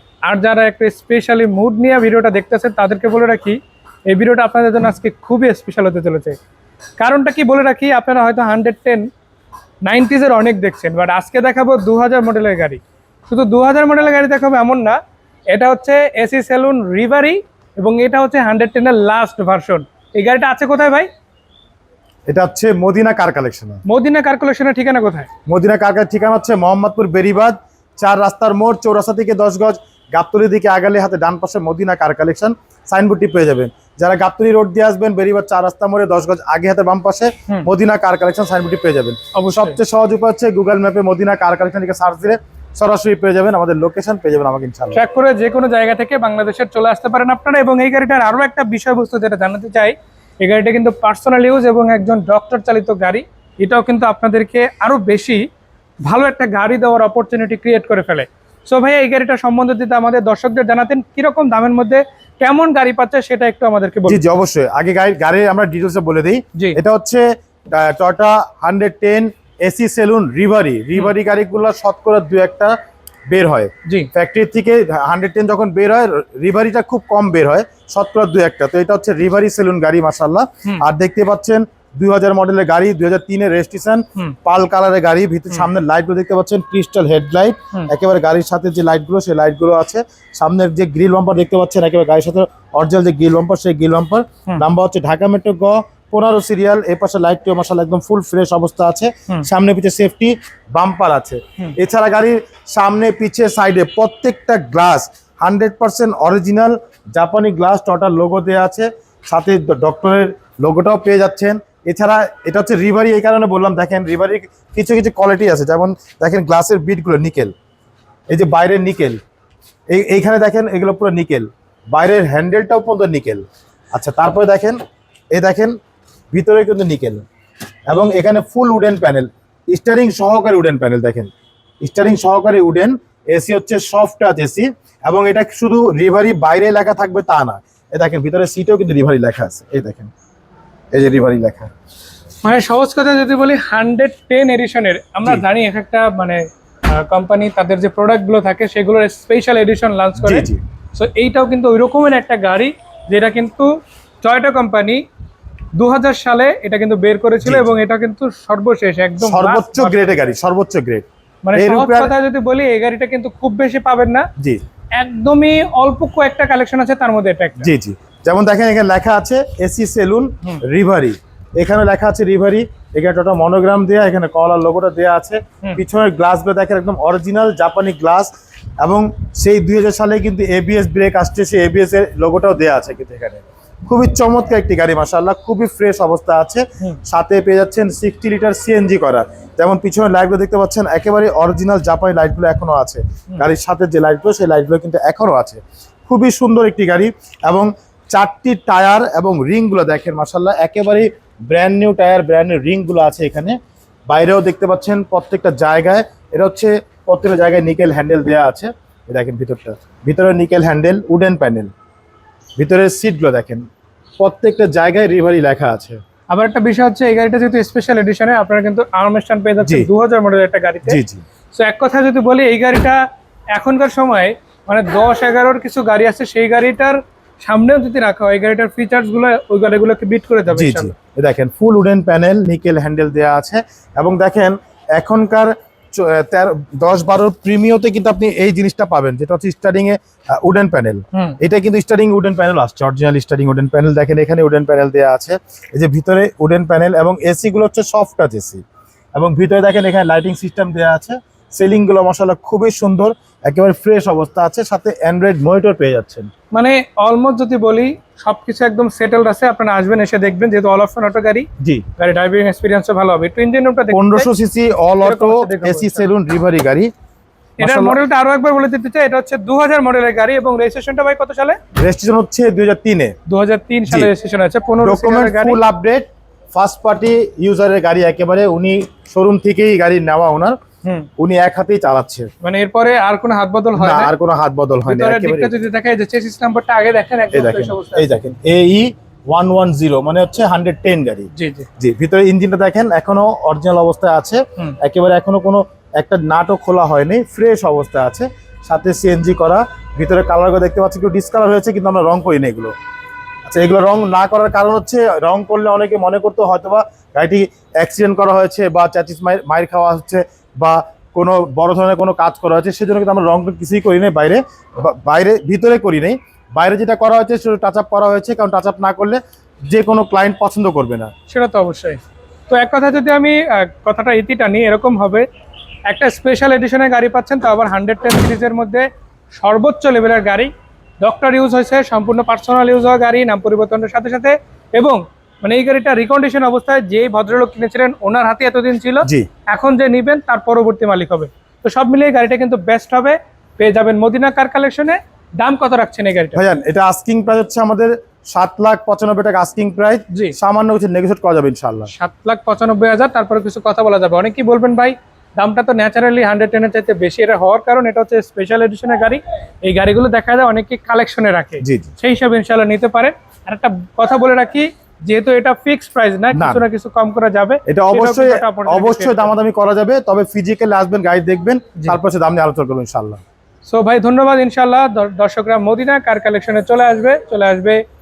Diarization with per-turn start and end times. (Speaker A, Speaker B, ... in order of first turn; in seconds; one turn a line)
Speaker A: 0.3-6.4
Speaker A: 7.0-9.1
Speaker A: 9.8-15.0
Speaker A: 15.5-21.1
Speaker B: 22.3-23.8
Speaker A: 23.9-25.3
Speaker B: 25.5-45.0
Speaker A: 39.3-39.8
Speaker A: 44.9-55.4
Speaker A: 56.0-64.2
Speaker B: 64.1-72.8
Speaker B: 73.3-117.5
Speaker B: 118.3-119.2
Speaker B: 119.9-124.8
Speaker B: 125.3-125.8
Speaker B: 126.3-127.3
Speaker B: 127.9-140.1
Speaker B: 140.9-141.7
Speaker A: 142.4-153.7
Speaker B: 150.2-150.6
Speaker A: 154.2-155.0
Speaker A: 155.8-160.1
Speaker B: 157.4-157.7
Speaker B: 159.2-162.1
Speaker A: 161.4-164.3
Speaker A: 164.9-167.7
Speaker B: 167.6-203.6
Speaker B: 204.1-211.7
Speaker B: 212.6-213.7
Speaker B: 214.2-216.0
Speaker A: 216.3-221.0
Speaker B: 219.6-219.9
Speaker B: 220.9-221.2
Speaker A: 221.5-223.0
Speaker A: 223.5-230.9
Speaker B: 230.5-248.6
Speaker B: 249.2-256.3
Speaker A: 256.5-264.3
Speaker B: 261.6-261.9
Speaker B: 263.9-266.9
Speaker A: 265.0-266.1
Speaker B: 267.6-268.0
Speaker A: 267.6-271.6
Speaker B: 271.8-273.1
Speaker A: 273.3-275.6
Speaker B: 274.8-280.6
Speaker B: 281.2-282.3
Speaker A: 282.4-284.1
Speaker B: 283.8-285.5
Speaker A: 284.9-288.1
Speaker B: 287.3-302.7
Speaker A: 291.3-291.7
Speaker B: 303.5-321.1
Speaker A: 321.3-325.3
Speaker A: 325.9-330.5
Speaker A: 331.0-346.4
Speaker B: 346.4-351.9
Speaker A: 350.1-350.4
Speaker A: 351.9-369.3
Speaker B: 361.6-361.9
Speaker B: 366.3-366.6
Speaker B: 367.7-373.2
Speaker A: 373.7-377.8